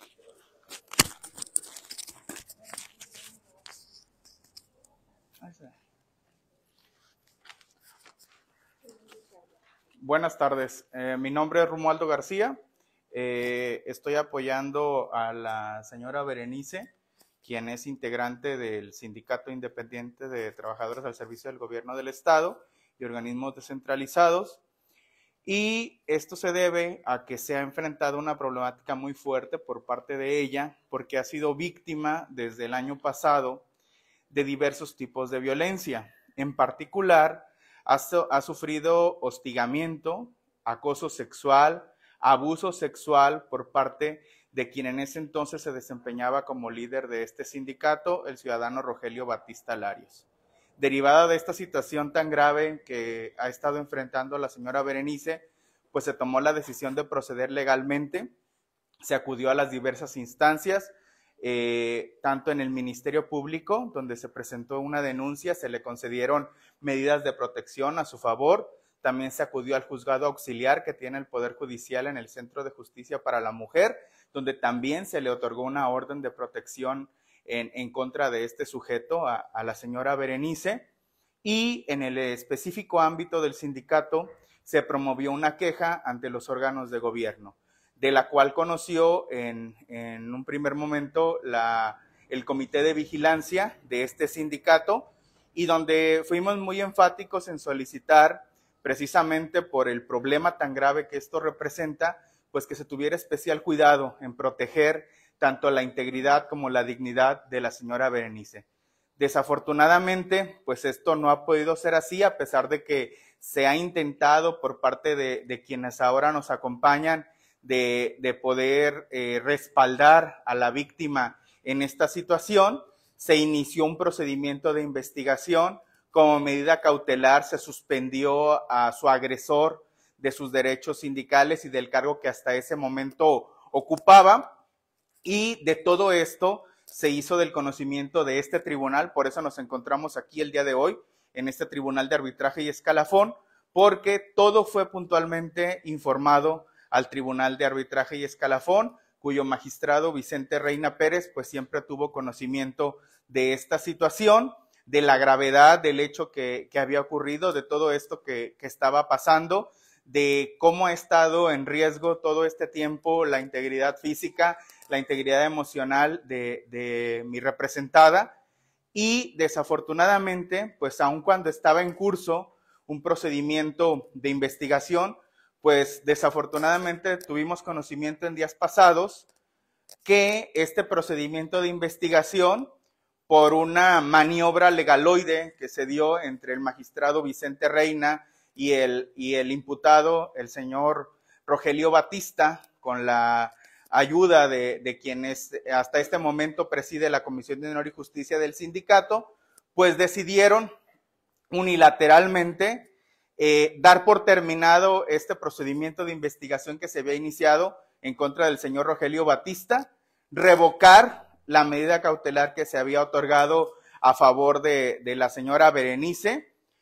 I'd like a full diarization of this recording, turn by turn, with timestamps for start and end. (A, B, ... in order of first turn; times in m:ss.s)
0:05.4-0:05.7 A
0:10.0-0:12.6 A
0:13.1-0:16.9 A
0:17.4-0:24.6 A
0:25.4-0:33.6 A
0:34.3-0:50.2 A
0:50.8-0:58.3 A
0:59.0-1:20.9 A
1:21.4-1:48.6 A
1:49.2-2:14.6 A
2:15.2-2:48.4 A
2:48.9-2:59.3 A
3:00.0-3:02.7 A
3:03.3-3:20.7 A
3:21.5-3:36.5 A